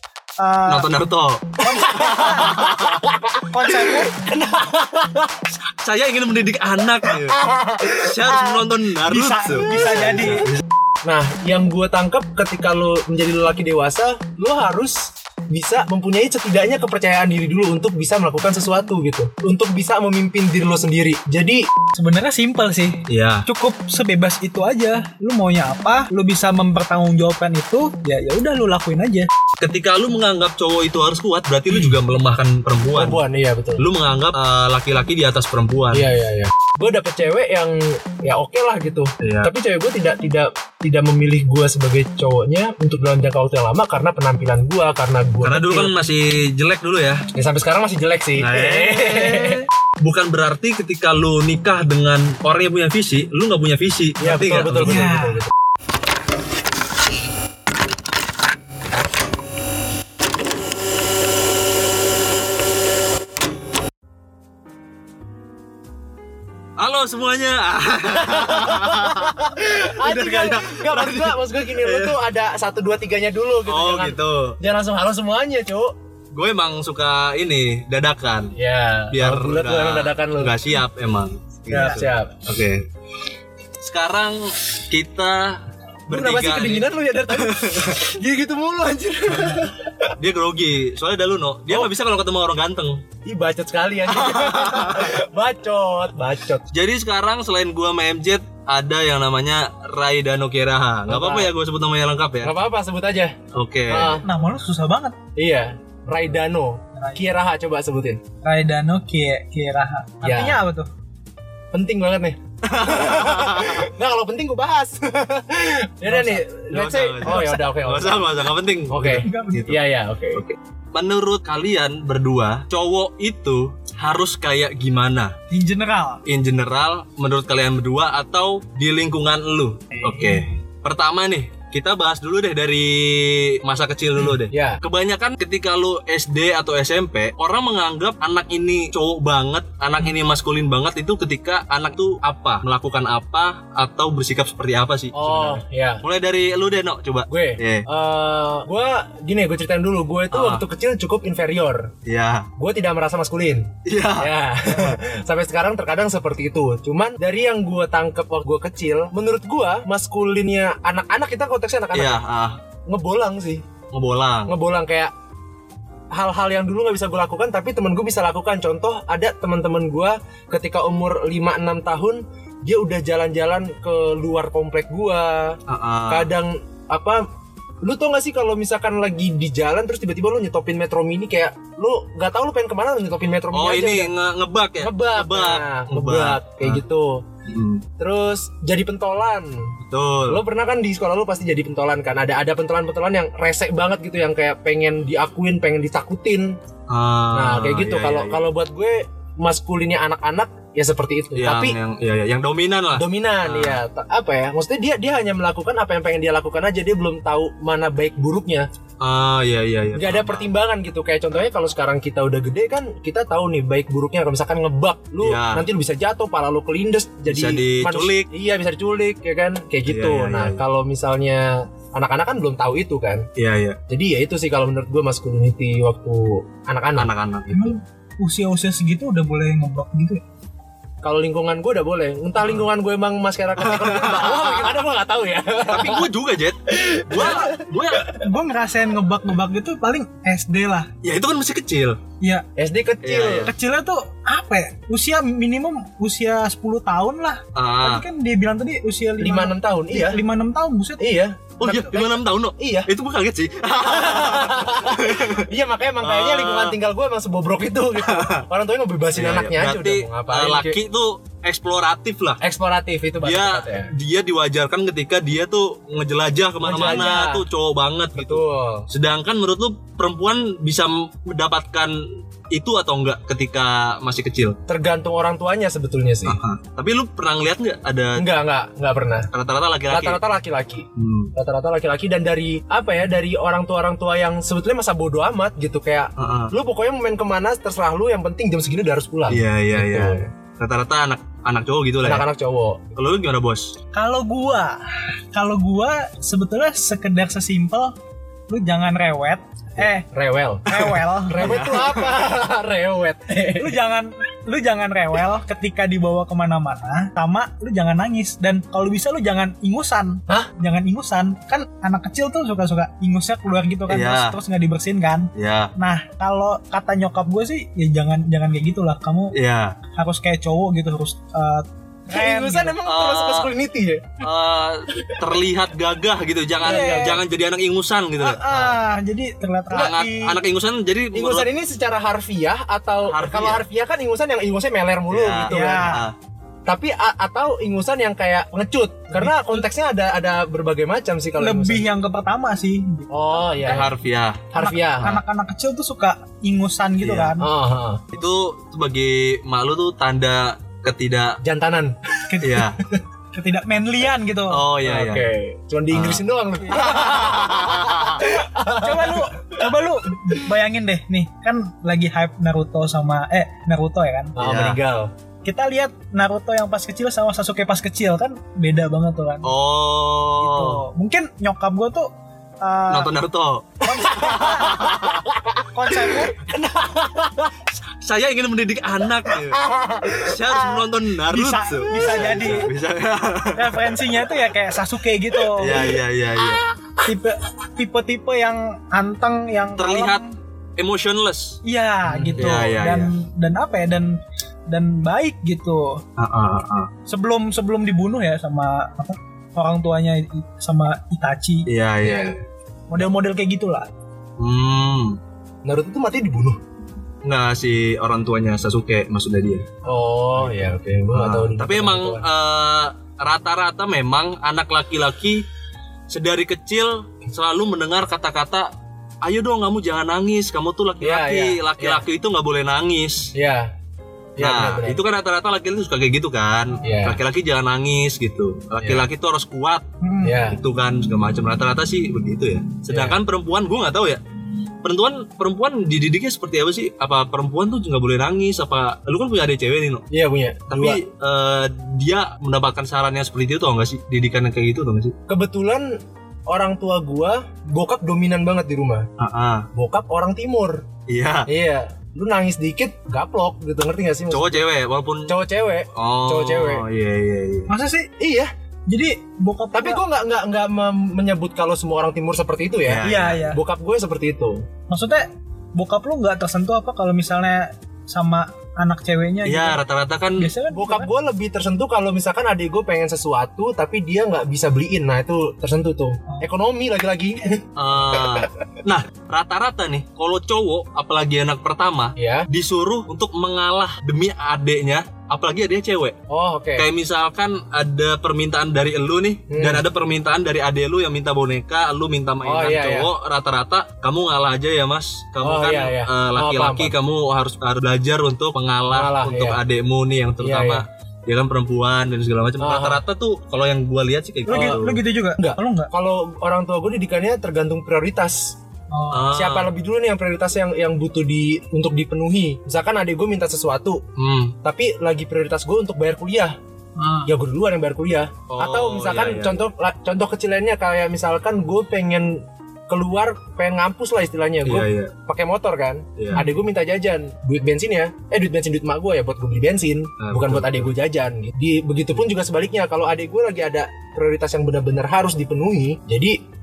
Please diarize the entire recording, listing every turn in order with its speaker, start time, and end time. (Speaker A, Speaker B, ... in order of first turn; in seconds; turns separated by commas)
Speaker A: 0.4-0.9, Speaker B: 0.7-1.6, Speaker A: 1.6-2.7, Speaker C: 1.7-3.4, Speaker B: 2.2-3.0, Speaker A: 3.4-4.2, Speaker C: 4.1-5.3, Speaker B: 5.5-10.6, Speaker C: 7.4-8.1, Speaker A: 9.1-10.5, Speaker C: 9.5-10.4, Speaker C: 11.1-21.7, Speaker A: 22.0-29.3, Speaker B: 23.1-23.4, Speaker B: 29.6-33.2, Speaker C: 33.0-33.9, Speaker B: 33.8-36.1, Speaker C: 35.9-45.9, Speaker B: 39.2-39.5, Speaker B: 45.4-47.3, Speaker C: 47.3-49.6, Speaker B: 48.4-55.1, Speaker C: 54.2-55.5, Speaker A: 54.8-55.4, Speaker B: 66.8-72.2, Speaker C: 68.2-75.9, Speaker B: 73.7-74.6, Speaker B: 76.3-78.5, Speaker C: 78.6-80.7, Speaker B: 79.1-82.9, Speaker C: 81.7-82.4, Speaker A: 81.7-82.0, Speaker B: 83.8-88.0, Speaker C: 86.1-90.2, Speaker B: 90.2-93.0, Speaker C: 93.2-96.7, Speaker B: 94.1-95.2, Speaker B: 96.7-102.5, Speaker C: 101.1-101.5, Speaker C: 102.4-103.4, Speaker B: 103.5-104.2, Speaker C: 103.9-104.3, Speaker A: 104.2-105.2, Speaker C: 105.4-108.2, Speaker A: 107.0-107.2, Speaker A: 108.4-110.9, Speaker C: 110.2-110.6, Speaker C: 111.7-120.4, Speaker B: 112.6-113.9, Speaker B: 116.7-125.3, Speaker A: 119.1-119.7, Speaker A: 125.5-126.2, Speaker B: 126.3-147.9, Speaker A: 130.0-130.4, Speaker C: 134.5-134.8, Speaker C: 145.1-146.0, Speaker C: 147.3-151.9, Speaker B: 150.3-150.7, Speaker B: 152.1-152.5, Speaker C: 152.6-162.2, Speaker B: 153.8-155.0, Speaker B: 161.9-162.6, Speaker C: 162.9-163.6, Speaker B: 163.9-164.6, Speaker C: 164.5-165.1, Speaker C: 166.1-177.2, Speaker B: 175.7-176.3, Speaker C: 177.8-184.1, Speaker B: 183.5-186.8, Speaker C: 184.8-187.3, Speaker B: 187.5-187.8, Speaker C: 188.0-189.7, Speaker B: 189.9-190.4, Speaker C: 190.3-196.6, Speaker B: 196.9-198.4, Speaker C: 197.3-201.8, Speaker B: 201.3-203.8, Speaker C: 202.9-208.7, Speaker B: 209.0-210.5, Speaker C: 209.9-223.3, Speaker B: 215.2-215.7, Speaker B: 217.3-218.3, Speaker B: 219.9-220.6, Speaker B: 223.4-223.8, Speaker C: 223.9-227.7, Speaker B: 227.0-227.6, Speaker A: 227.5-230.2, Speaker C: 231.0-236.1, Speaker B: 233.6-234.7, Speaker B: 235.7-238.1, Speaker C: 236.7-237.6, Speaker A: 237.2-240.9, Speaker B: 241.0-242.0, Speaker A: 242.2-242.5, Speaker C: 242.6-243.5, Speaker B: 243.0-243.5, Speaker A: 243.5-251.1, Speaker B: 247.6-248.1, Speaker C: 249.2-250.2, Speaker C: 251.0-252.9, Speaker B: 251.6-255.5, Speaker C: 253.8-260.8, Speaker B: 256.0-256.8, Speaker B: 258.0-258.4, Speaker B: 259.1-262.4, Speaker C: 262.4-263.9, Speaker B: 263.2-274.6, Speaker C: 266.6-267.4, Speaker C: 268.1-268.9, Speaker C: 274.7-276.4, Speaker B: 276.3-278.2, Speaker C: 278.2-279.3, Speaker B: 279.3-280.2, Speaker C: 279.9-290.3, Speaker B: 281.0-281.3, Speaker B: 286.2-286.5, Speaker B: 289.3-292.2, Speaker C: 292.0-292.9, Speaker B: 293.0-293.7, Speaker A: 293.9-297.9, Speaker A: 298.5-300.1, Speaker C: 299.8-303.7, Speaker A: 300.7-301.6, Speaker B: 301.4-302.2, Speaker A: 303.5-319.4, Speaker B: 313.9-314.4, Speaker B: 315.4-315.7, Speaker B: 319.3-319.8, Speaker A: 320.0-322.8, Speaker C: 322.1-324.3, Speaker B: 322.9-323.5, Speaker B: 324.2-328.4, Speaker C: 326.6-327.2, Speaker A: 326.6-327.2, Speaker A: 328.2-330.4, Speaker C: 328.5-328.8, Speaker B: 329.7-331.5, Speaker C: 331.1-335.9, Speaker B: 333.1-333.6, Speaker B: 335.1-336.1, Speaker A: 335.5-336.1, Speaker C: 336.7-341.9, Speaker A: 339.2-339.5, Speaker A: 341.4-343.9, Speaker C: 343.1-343.9, Speaker B: 343.6-344.5, Speaker C: 344.5-345.2, Speaker A: 344.6-347.5, Speaker B: 347.0-347.3, Speaker C: 347.4-348.0, Speaker B: 348.1-351.4, Speaker C: 351.4-353.0, Speaker A: 352.3-352.6, Speaker B: 352.4-352.8, Speaker A: 353.3-354.6, Speaker B: 354.5-355.3, Speaker C: 354.8-359.7, Speaker B: 355.9-356.2, Speaker A: 356.6-357.1, Speaker B: 356.8-358.2, Speaker A: 358.7-364.4, Speaker C: 364.4-365.1, Speaker B: 364.4-364.8, Speaker A: 365.4-369.5, Speaker B: 369.4-370.8, Speaker A: 370.4-372.1, Speaker A: 372.6-373.1, Speaker B: 372.9-375.2, Speaker A: 373.9-374.9, Speaker C: 373.9-377.7, Speaker A: 375.7-376.4, Speaker B: 377.9-379.6, Speaker C: 379.2-380.8, Speaker B: 380.2-384.1, Speaker A: 381.3-382.7, Speaker C: 381.9-382.7, Speaker A: 383.6-385.7, Speaker B: 385.6-386.6, Speaker C: 385.6-387.0, Speaker A: 387.1-390.3, Speaker B: 389.8-390.2, Speaker B: 390.8-391.6, Speaker A: 391.6-396.0, Speaker C: 392.1-392.5, Speaker B: 392.4-393.1, Speaker B: 396.2-396.9, Speaker A: 397.1-401.7, Speaker B: 401.7-402.4, Speaker C: 402.0-402.4, Speaker A: 402.9-403.9, Speaker B: 404.4-405.2, Speaker C: 405.6-406.6, Speaker B: 407.2-409.7, Speaker C: 409.9-412.3, Speaker B: 411.1-415.4, Speaker B: 416.1-418.7, Speaker B: 419.2-423.3, Speaker C: 421.0-422.0, Speaker C: 423.4-423.7, Speaker C: 424.4-425.0, Speaker B: 424.4-429.9, Speaker C: 426.8-427.2, Speaker C: 428.8-429.1, Speaker A: 430.0-430.4, Speaker C: 430.2-430.6, Speaker B: 430.4-434.2, Speaker C: 432.9-433.2, Speaker B: 434.8-440.1, Speaker C: 440.1-441.0, Speaker B: 440.7-445.1, Speaker C: 445.3-446.0, Speaker C: 446.5-449.1, Speaker B: 449.2-449.7, Speaker C: 449.7-450.9, Speaker B: 451.1-451.5, Speaker C: 451.5-454.6, Speaker B: 454.3-455.4, Speaker C: 455.3-456.8, Speaker B: 455.9-457.7, Speaker A: 457.7-458.1, Speaker C: 458.2-458.5, Speaker A: 458.9-460.0, Speaker C: 459.7-464.7, Speaker B: 462.9-463.5, Speaker A: 463.0-463.6, Speaker A: 464.9-469.8, Speaker B: 469.4-470.5, Speaker A: 470.4-471.1, Speaker C: 470.7-478.5, Speaker B: 477.8-486.2, Speaker C: 482.2-482.5, Speaker C: 486.3-486.9, Speaker B: 486.8-505.0, Speaker C: 489.5-489.9, Speaker C: 492.4-493.1, Speaker C: 495.4-497.0, Speaker C: 498.9-499.6, Speaker C: 500.4-500.8, Speaker C: 502.6-503.0, Speaker A: 504.5-505.9, Speaker C: 504.5-504.8, Speaker C: 505.4-508.6, Speaker A: 508.9-509.4, Speaker B: 509.1-509.7, Speaker C: 509.3-514.0, Speaker B: 514.2-514.5, Speaker C: 514.6-516.6, Speaker A: 517.0-517.3, Speaker C: 517.3-536.4, Speaker B: 518.5-519.6, Speaker B: 524.6-525.1, Speaker B: 526.2-526.4, Speaker B: 530.2-530.9